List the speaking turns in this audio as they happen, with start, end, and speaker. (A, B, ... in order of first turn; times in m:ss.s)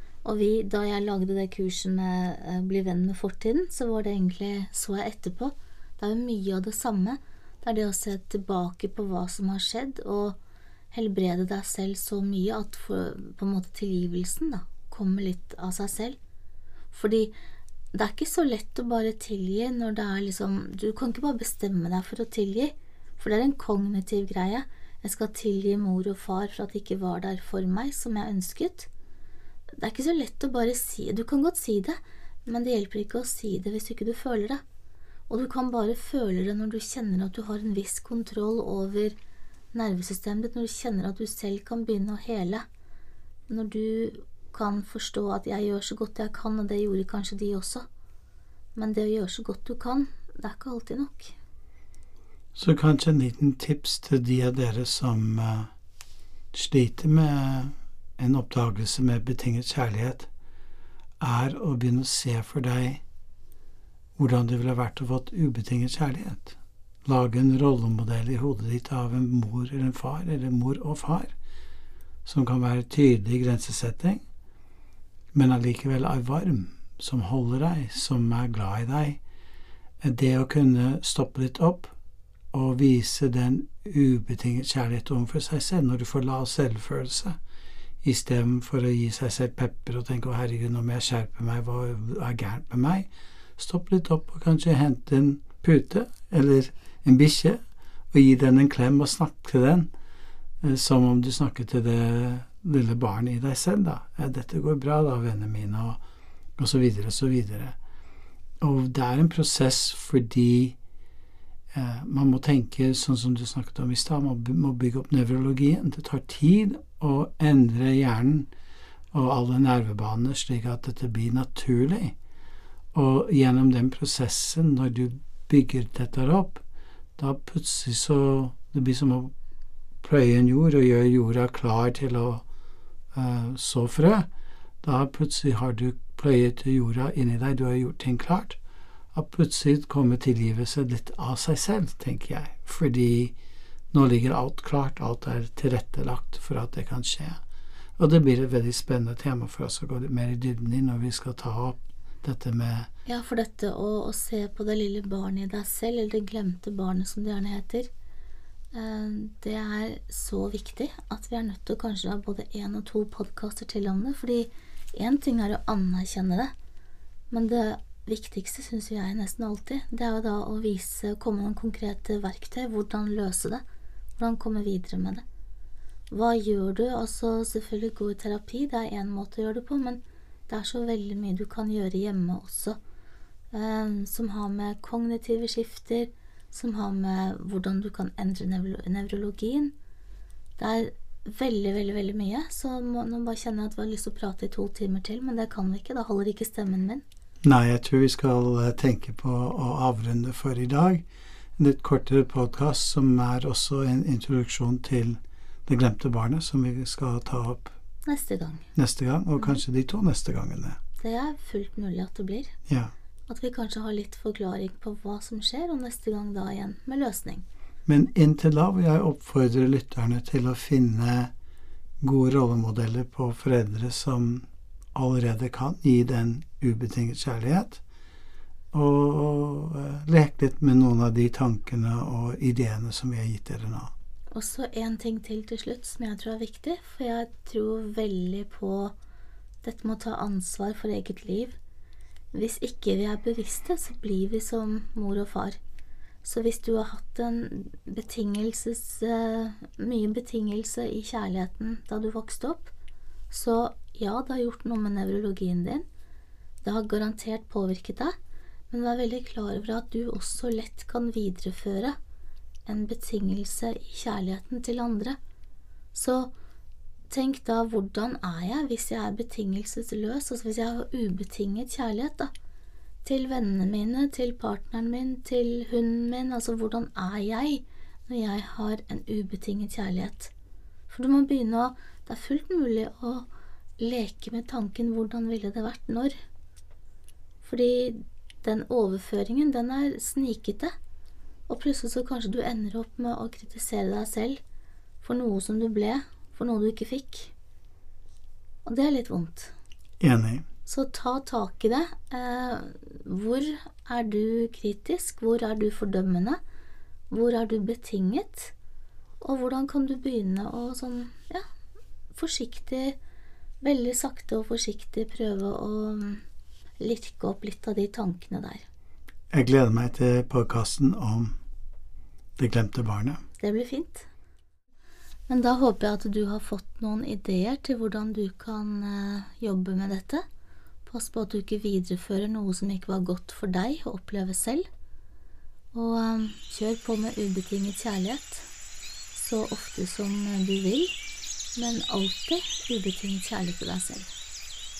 0:00.2-0:10.4 A
0:10.9-0:16.2 A
0:16.9-0:17.3 A
0:17.9-0:28.9 A
0:29.8-0:34.6 A
0:35.3-0:39.2 A
0:39.7-0:42.6 A
0:43.5-0:47.8 A
0:48.8-0:51.3 A
0:52.6-0:55.7 B
0:56.5-1:00.3 B
1:01.2-1:03.0 B
1:04.2-1:11.3 B
1:12.2-1:14.2 B
1:15.3-1:19.2 B
1:20.0-1:21.9 B
1:22.5-1:27.4 B
1:28.0-1:37.6 B
1:38.1-1:39.9 B
1:40.6-1:46.0 B
1:46.6-1:47.8 B
1:48.6-1:50.8 B
1:51.7-1:58.5 B
1:59.1-2:02.2 B
2:02.9-2:06.6 B
2:07.2-2:09.3 B
2:10.0-2:12.4 B
2:13.1-2:14.3 B
2:14.8-2:18.6 B
2:19.1-2:23.3 B
2:23.9-2:27.4 B
2:28.0-2:32.9 B
2:33.0-2:37.9 A
2:38.7-2:46.5 A
2:47.3-2:53.6 A
2:54.2-2:55.2 A
2:56.1-3:02.8 A
3:03.5-3:09.7 A
3:10.6-3:17.0 A
3:17.4-3:21.0 B
3:21.6-3:27.7 B
3:28.0-3:28.6 A
3:28.7-3:30.8 B
3:31.0-3:32.5 A
3:32.7-3:32.9 B
3:33.3-3:37.4 A
3:37.8-3:41.3 B
3:42.0-3:47.8 B
3:48.7-3:53.9 B
3:54.3-3:58.9 A
3:59.6-4:01.6 A
4:02.3-4:05.6 A
4:06.2-4:12.7 A
4:13.3-4:15.8 A
4:16.6-4:18.1 A
4:18.7-4:22.0 A
4:22.7-4:25.2 A
4:25.9-4:26.3 A
4:27.1-4:32.3 A
4:33.0-4:40.3 A
4:40.9-4:43.3 A
4:43.8-4:46.1 A
4:47.4-4:50.7 A
4:51.5-4:54.4 A
4:55.0-4:57.3 A
4:58.6-4:59.5 A
5:00.0-5:00.4 B
5:00.6-5:06.4 A
5:07.1-5:08.5 A
5:09.2-5:11.4 A
5:12.1-5:13.0 A
5:13.6-5:16.2 A
5:16.8-5:18.7 A
5:19.3-5:21.3 B
5:22.4-5:23.2 B
5:23.4-5:24.1 A
5:25.3-5:30.2 A
5:30.8-5:34.6 A
5:35.7-5:38.4 A
5:39.1-5:40.9 A
5:41.6-5:44.1 A